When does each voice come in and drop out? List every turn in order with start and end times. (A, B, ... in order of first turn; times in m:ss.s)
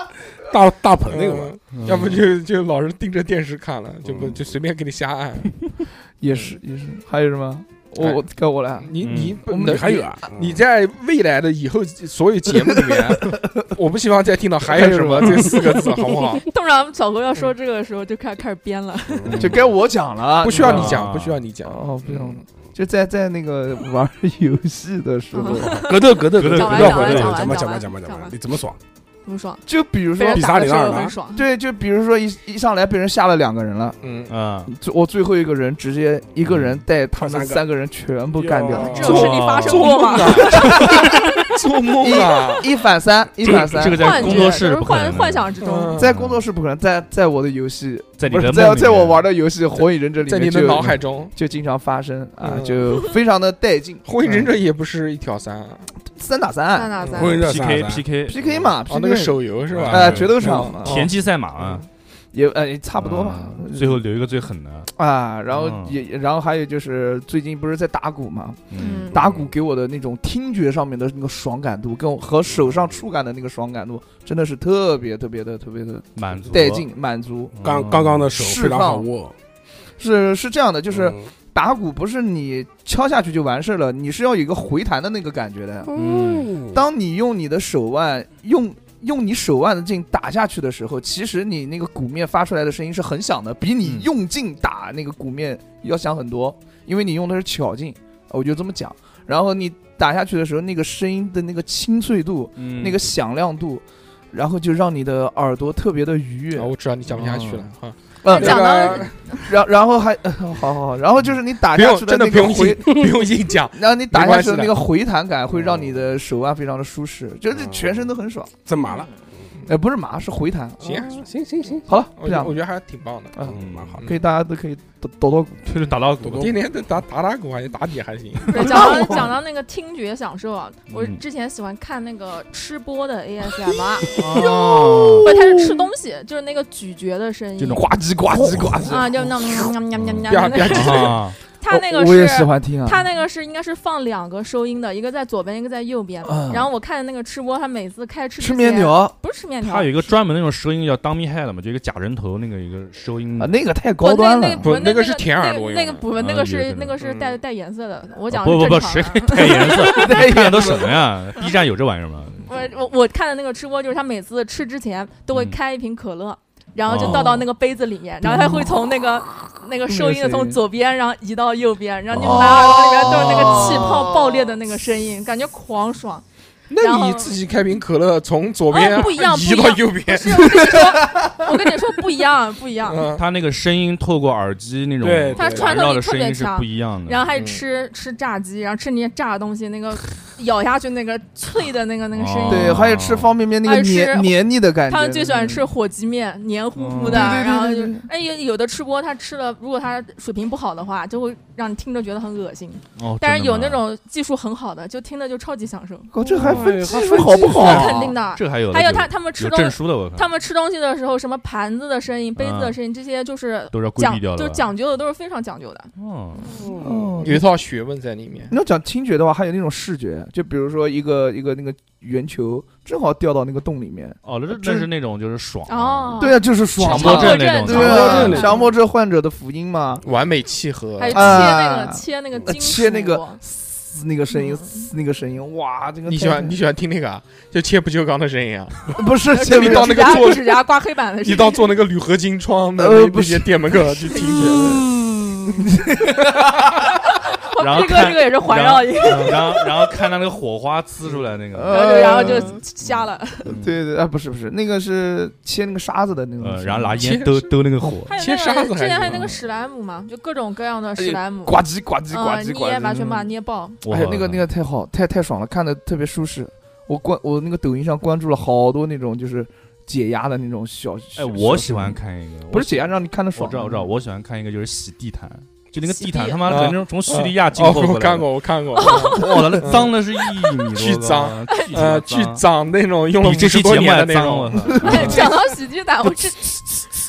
0:00.4-0:01.6 A
0:01.1-0:05.5 B
0:01.7-0:02.2 C
0:06.2-0:09.8 D
0:06.3-0:06.5 B
0:08.8-0:16.4 B
0:09.0-0:09.4 C
0:09.6-0:10.6 A
0:13.2-0:13.6 D
0:14.7-0:15.8 D
0:16.4-0:19.4 E
0:19.2-0:19.6 C
0:19.4-0:21.0 D
0:20.4-0:22.4 B
0:20.6-0:21.4 C
0:21.6-0:25.8 D
0:25.3-0:28.4 E
0:25.8-0:28.8 A
0:26.4-0:27.5 C
0:29.2-0:31.4 E
0:29.6-0:30.7 D
0:30.3-0:31.2 A
0:31.3-0:34.0 D
0:34.0-0:34.3 B
0:34.3-0:34.7 C
0:34.6-0:39.2 D
0:36.4-0:36.8 C
0:37.2-0:37.6 A
0:38.3-0:39.4 A
0:38.7-0:40.8 E
0:38.8-0:42.6 B
0:39.0-0:40.0 C
0:40.3-0:41.1 D
0:42.0-0:44.5 D
0:43.5-0:46.4 C
0:43.9-0:46.0 E
0:45.6-0:46.1 B
0:46.0-0:54.5 D
0:48.2-0:49.3 C
0:50.2-0:51.3 B
0:52.4-0:52.9 B
0:54.0-0:55.9 B
0:56.0-0:56.9 D
0:56.7-0:57.5 E
0:57.0-0:57.4 B
0:57.1-0:58.0 A
0:57.3-0:58.6 C
0:58.2-1:01.0 D
0:58.9-1:01.8 B
0:59.7-1:01.8 C
1:02.3-1:04.0 D
1:03.0-1:04.9 C
1:04.9-1:17.5 D
1:05.5-1:05.9 C
1:08.7-1:09.3 C
1:08.8-1:09.2 E
1:16.1-1:16.8 C
1:17.5-1:18.3 C
1:17.6-1:19.3 A
1:18.3-1:19.1 D
1:20.0-1:25.9 D
1:20.9-1:21.3 A
1:25.9-1:26.8 A
1:25.9-1:26.5 C
1:26.7-1:47.5 D
1:33.8-1:34.1 C
1:42.6-1:43.0 C
1:46.6-1:49.2 B
1:47.2-1:47.6 C
1:48.2-1:53.1 D
1:48.3-1:49.4 E
1:51.7-1:54.8 B
1:53.7-1:58.5 D
1:57.6-1:57.9 A
1:58.6-1:59.1 A
1:59.7-2:00.8 D
2:00.8-2:01.9 A
2:00.8-2:01.2 B
2:01.9-2:02.6 D
2:02.2-2:04.2 B
2:03.4-2:05.7 D
2:03.5-2:04.0 A
2:03.5-2:04.0 C
2:05.6-2:06.6 C
2:06.2-2:06.5 A
2:06.3-2:08.9 B
2:08.5-2:14.2 E
2:08.6-2:09.1 D
2:10.9-2:11.2 C
2:14.1-2:15.8 D
2:14.1-2:15.3 C
2:15.2-2:17.8 E
2:17.6-2:18.9 C
2:17.7-2:19.7 D
2:18.9-2:30.1 E
2:19.9-2:21.4 C
2:20.3-2:21.2 B
2:21.7-2:23.0 D
2:26.2-2:26.7 D
2:28.4-2:29.1 D
2:29.6-2:33.6 C
2:33.4-2:34.8 D
2:34.0-2:40.3 E
2:34.6-2:36.1 B
2:36.2-2:37.0 C
2:37.0-2:37.4 B
2:38.3-2:42.5 C
2:39.6-2:40.9 D
2:42.4-2:56.2 E
2:45.3-2:45.6 C
2:46.8-2:47.4 C
2:47.0-2:47.4 D
2:48.2-2:49.0 D
2:49.8-2:50.6 D
2:52.1-2:52.7 C
2:52.2-2:54.5 D
2:56.7-3:00.7 B
2:56.8-2:57.3 E
2:58.7-3:03.1 E
3:00.6-3:01.5 D
3:02.8-3:03.2 B
3:03.1-3:07.3 C
3:05.0-3:05.8 A
3:05.3-3:12.9 E
3:07.3-3:07.6 B
3:12.1-3:13.3 C
3:12.5-3:15.6 D
3:13.6-3:26.1 E
3:16.7-3:17.4 C
3:17.1-3:18.1 D
3:23.0-3:23.8 C
3:26.1-3:28.1 D
3:26.2-3:28.1 A
3:26.4-3:26.7 C
3:27.3-3:35.9 E
3:27.6-3:30.3 C
3:32.4-3:32.8 C
3:33.7-3:34.7 C
3:36.0-3:36.5 C
3:36.5-3:37.1 A
3:36.8-3:37.4 D
3:37.2-3:38.5 B
3:38.5-3:44.9 D
3:44.2-3:48.4 C
3:45.7-3:48.7 E
3:46.2-3:50.0 D
3:47.7-3:48.6 A
3:50.0-3:51.4 B
3:51.0-3:53.4 E
3:51.1-3:56.6 D
3:54.3-3:54.9 E
3:56.0-4:00.6 B
3:58.9-4:00.3 D
3:59.3-4:01.7 E
4:01.2-4:04.8 B
4:02.8-4:06.8 D
4:04.1-4:04.6 E
4:07.4-4:09.6 E
4:07.6-4:13.7 C
4:09.1-4:09.3 D
4:11.5-4:12.6 D
4:11.7-4:13.5 E
4:13.5-4:17.0 D
4:16.4-4:18.1 C
4:17.0-4:17.5 B
4:18.0-4:23.8 E
4:18.2-4:19.2 B
4:19.0-4:19.4 D
4:21.0-4:23.3 D
4:23.8-4:24.4 C
4:23.8-4:32.0 D
4:31.2-4:38.3 C
4:32.5-4:33.9 D
4:35.8-4:36.5 E
4:36.4-4:40.0 B
4:38.8-4:39.6 E
4:38.8-4:42.4 C
4:40.6-4:45.3 B
4:41.5-4:41.8 E
4:43.2-4:45.3 C
4:44.7-4:45.1 D
4:44.7-4:46.8 E